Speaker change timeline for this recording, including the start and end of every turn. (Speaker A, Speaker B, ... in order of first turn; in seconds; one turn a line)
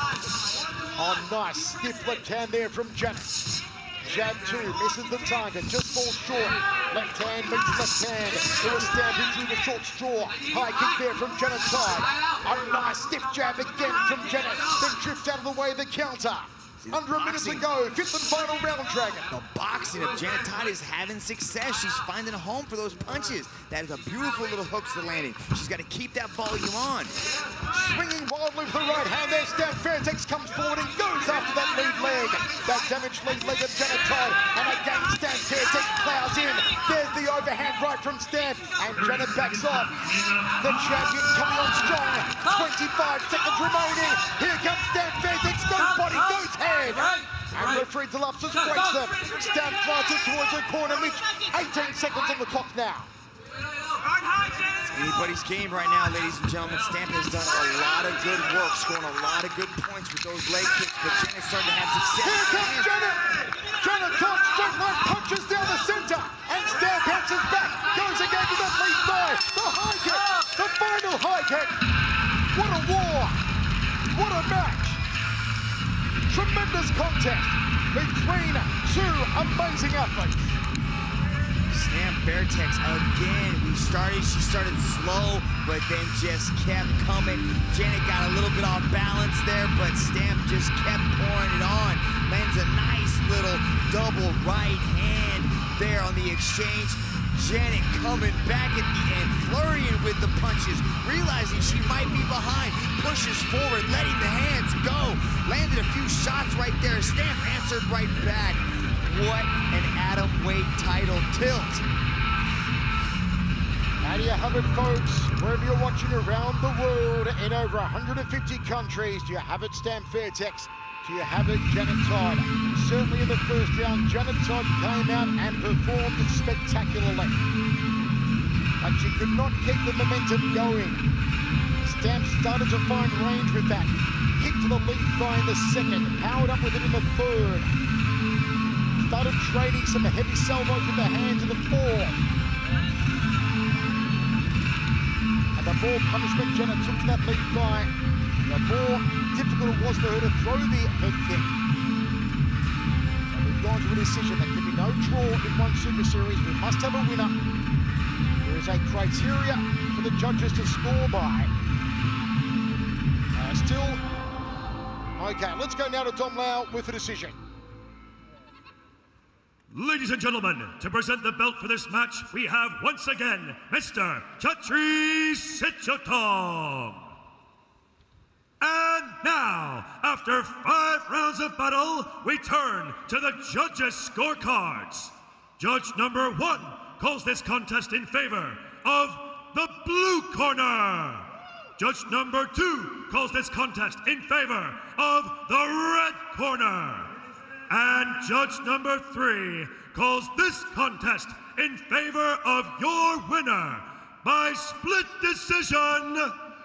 Speaker A: 1.0-3.4
Speaker A: 4.0-19.3
Speaker B: 16.8-17.7
Speaker B: 19.3-27.1
Speaker A: 27.7-53.1
Speaker B: 54.9-63.0
Speaker A: 62.2-71.8
Speaker A: 72.5-73.4
Speaker A: 74.1-75.0
Speaker A: 76.3-80.5
Speaker B: 81.7-111.9
Speaker A: 114.0-127.4
Speaker A: 128.8-131.1
Speaker A: 131.8-137.8
Speaker A: 139.0-142.2
Speaker A: 145.6-147.9
Speaker A: 148.4-151.6
Speaker A: 153.3-157.4
Speaker A: 158.4-161.5
Speaker A: 163.3-164.0
Speaker A: 165.2-167.4
Speaker C: 169.7-177.1
Speaker C: 178.6-197.2
Speaker C: 197.7-206.4